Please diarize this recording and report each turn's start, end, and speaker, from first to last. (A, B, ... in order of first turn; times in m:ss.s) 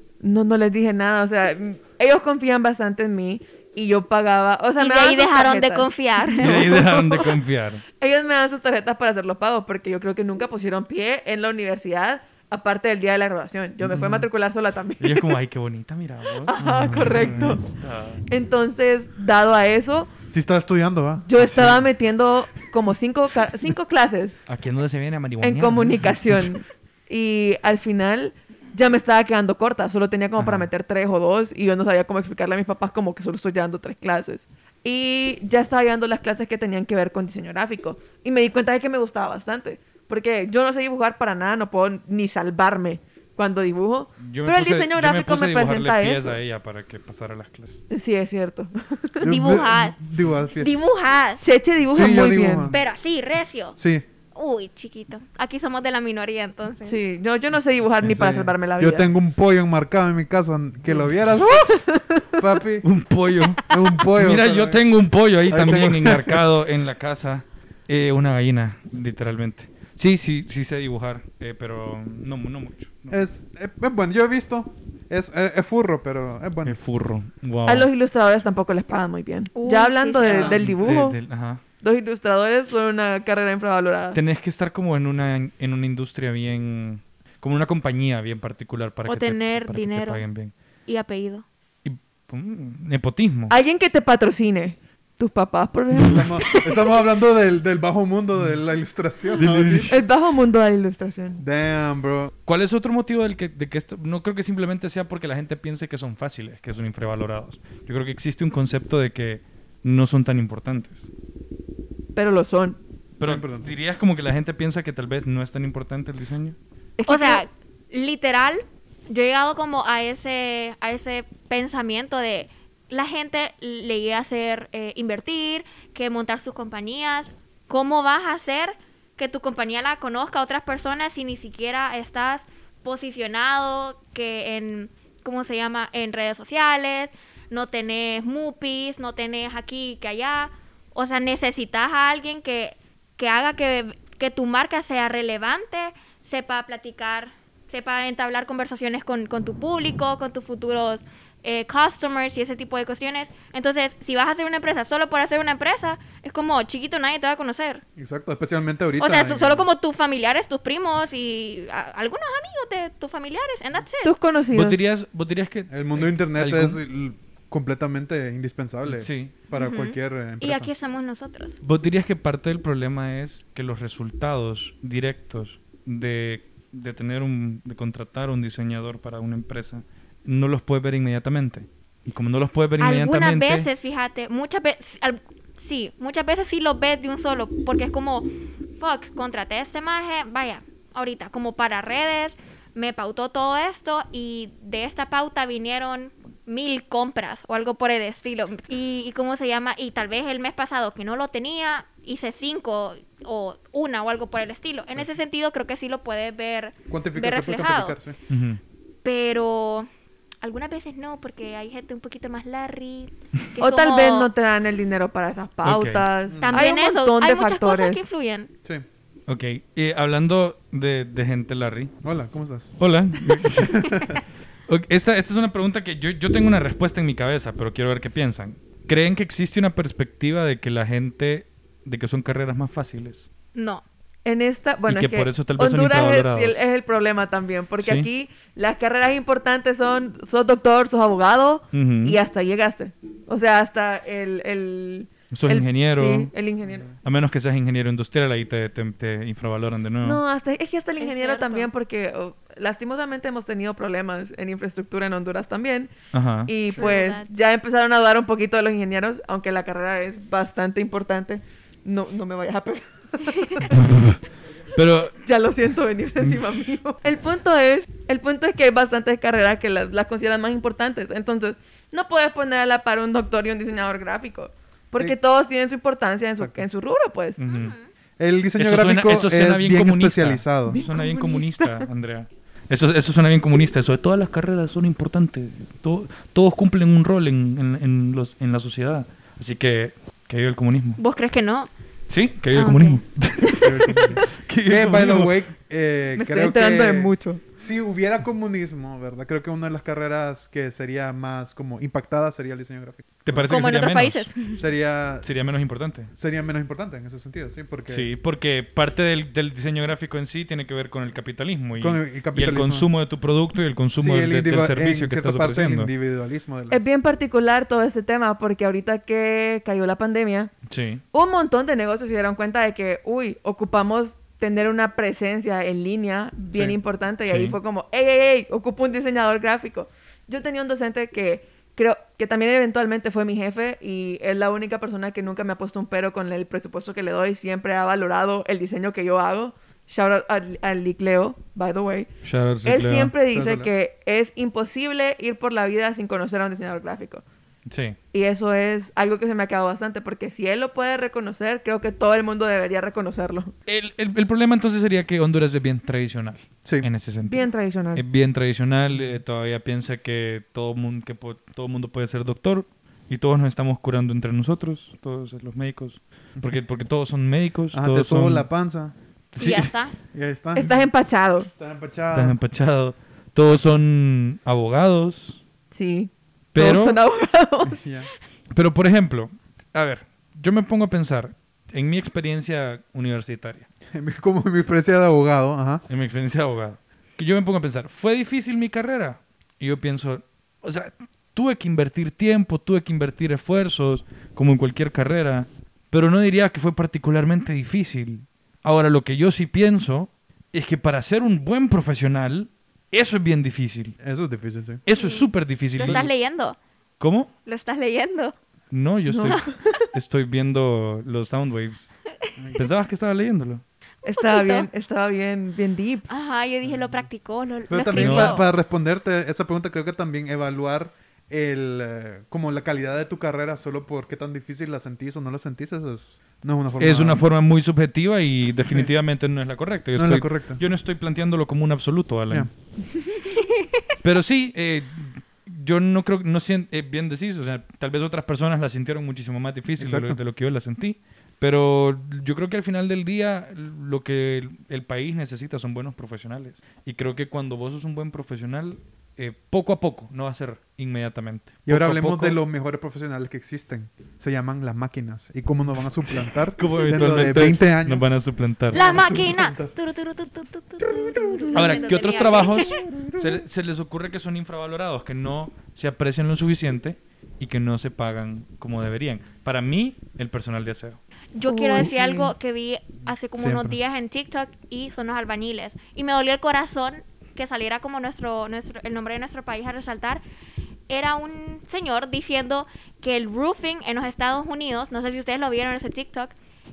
0:00.2-0:07.3 A
0:04.8-0:06.8 B
0:06.4-0:07.8 C
0:08.0-0:15.3 A
0:13.8-0:14.2 D
0:15.0-0:18.2 C
0:16.4-0:17.6 A
0:16.6-0:17.6 D
0:18.3-0:20.1 A
0:20.3-0:21.8 D
0:21.2-0:24.4 A
0:24.5-0:26.4 C
0:25.4-0:46.4 A
0:30.4-0:30.7 C
0:44.2-0:47.8 C
0:47.9-0:49.3 A
0:49.2-0:50.7 D
0:49.2-0:50.0 B
0:50.5-0:51.4 B
0:51.4-0:52.7 A
0:51.9-0:52.8 D
0:52.7-0:53.8 B
0:53.8-0:54.0 D
0:54.3-0:57.0 B
0:56.8-0:59.1 A
0:58.0-1:01.8 D
1:01.5-1:02.4 A
1:02.3-1:02.9 D
1:02.8-1:13.2 C
1:03.6-1:04.8 D
1:05.5-1:06.4 D
1:13.1-1:16.8 D
1:16.6-1:17.9 C
1:17.6-1:21.2 A
1:19.6-1:20.6 B
1:20.2-1:20.6 D
1:20.5-1:21.6 C
1:21.8-1:24.2 A
1:24.1-1:30.5 C
1:29.0-1:30.2 B
1:30.8-1:31.4 B
1:31.8-1:33.5 C
1:33.5-1:36.6 A
1:36.0-1:40.0 D
1:39.4-1:40.0 C
1:39.9-1:41.4 A
1:41.4-1:42.3 D
1:42.4-1:51.0 C
1:52.2-1:52.8 A
1:53.2-1:56.6 C
1:53.2-1:53.7 D
1:57.0-1:57.4 A
1:57.0-2:37.8 B
2:38.0-2:39.6 D
2:39.0-2:44.1 B
2:44.0-2:44.8 A
2:44.5-2:46.8 C
2:45.7-2:50.7 D
2:48.9-2:49.3 C
2:49.5-2:51.6 B
2:51.6-3:03.7 C
3:02.8-3:28.0 B
3:26.9-3:28.2 D
3:28.3-3:28.6 C
3:29.0-3:29.9 B
3:30.4-3:34.3 B
3:33.6-3:38.0 A
3:35.6-3:36.0 C
3:36.3-3:36.6 D
3:36.4-3:38.5 B
3:39.3-3:41.9 C
3:42.0-3:42.8 D
3:42.8-3:44.1 C
3:43.4-3:44.2 D
3:44.7-3:53.3 C
3:53.5-3:53.8 B
3:54.2-4:06.9 A
3:54.9-3:56.6 C
3:57.8-3:58.1 C
4:01.7-4:02.2 C
4:05.3-4:06.3 C
4:07.0-4:10.2 C
4:10.0-4:15.9 A
4:11.0-4:11.7 B
4:16.1-4:16.5 C
4:16.4-4:23.7 A
4:16.7-4:17.3 B
4:23.7-4:24.2 C
4:24.7-4:25.1 C
4:25.2-4:37.4 A
4:37.4-4:37.7 C
4:37.5-4:37.9 B
4:38.2-4:40.8 D
4:38.6-4:51.0 C
4:40.7-4:41.9 A
4:51.0-4:51.7 B
4:52.1-4:55.4 C
4:52.5-4:53.5 B
4:53.6-5:03.7 D
4:56.2-4:57.4 A
5:03.2-5:04.3 C
5:03.5-5:04.6 B
5:04.5-5:05.4 D
5:05.2-5:06.1 C
5:06.1-5:08.1 D
5:07.9-5:15.9 C
5:11.8-5:12.9 D
5:14.0-5:16.9 D
5:16.7-5:20.5 A
5:20.7-5:21.0 C
5:21.1-5:42.1 A
5:27.2-5:27.6 C
5:42.2-5:43.1 C
5:42.6-5:47.2 A
5:43.3-5:43.7 D
5:47.6-5:48.0 C
5:48.1-5:53.5 A
5:53.7-6:08.5 C
5:57.2-5:58.0 A
6:07.7-6:08.9 D
6:09.3-6:09.7 C
6:09.4-6:09.9 B
6:10.1-6:10.8 D
6:10.5-6:11.5 A
6:11.6-6:12.4 D
6:12.1-6:15.4 C
6:15.7-6:17.8 A
6:16.5-6:17.0 C
6:17.6-6:18.1 D
6:18.5-6:23.7 C
6:23.9-6:25.8 D
6:25.9-6:44.0 C
6:44.0-6:44.8 D
6:44.8-6:46.1 C
6:44.9-6:46.6 B
6:45.8-6:46.1 D
6:47.0-6:47.3 C
6:47.4-6:48.3 B
6:48.7-6:51.9 C
6:49.1-6:49.7 A
6:49.2-6:49.5 B
6:52.4-6:52.7 D
6:52.5-6:53.6 C
6:54.0-6:56.1 A
6:54.2-6:54.7 B
6:56.1-6:58.4 B
6:56.6-6:57.0 D
6:57.7-7:07.2 D
6:57.9-6:58.4 C
7:06.8-7:12.5 C
7:10.0-7:10.6 D
7:14.0-7:32.4 C
7:19.8-7:20.2 D
7:31.6-7:38.2 D
7:36.0-7:39.0 C
7:38.7-7:39.7 D
7:38.7-7:42.8 B
7:40.8-7:41.8 D
7:41.5-7:51.0 C
7:42.6-7:43.4 D
7:51.3-8:00.2 B
7:51.5-7:52.2 A
7:51.7-7:52.2 D
7:53.3-7:53.8 D
8:00.9-8:06.3 B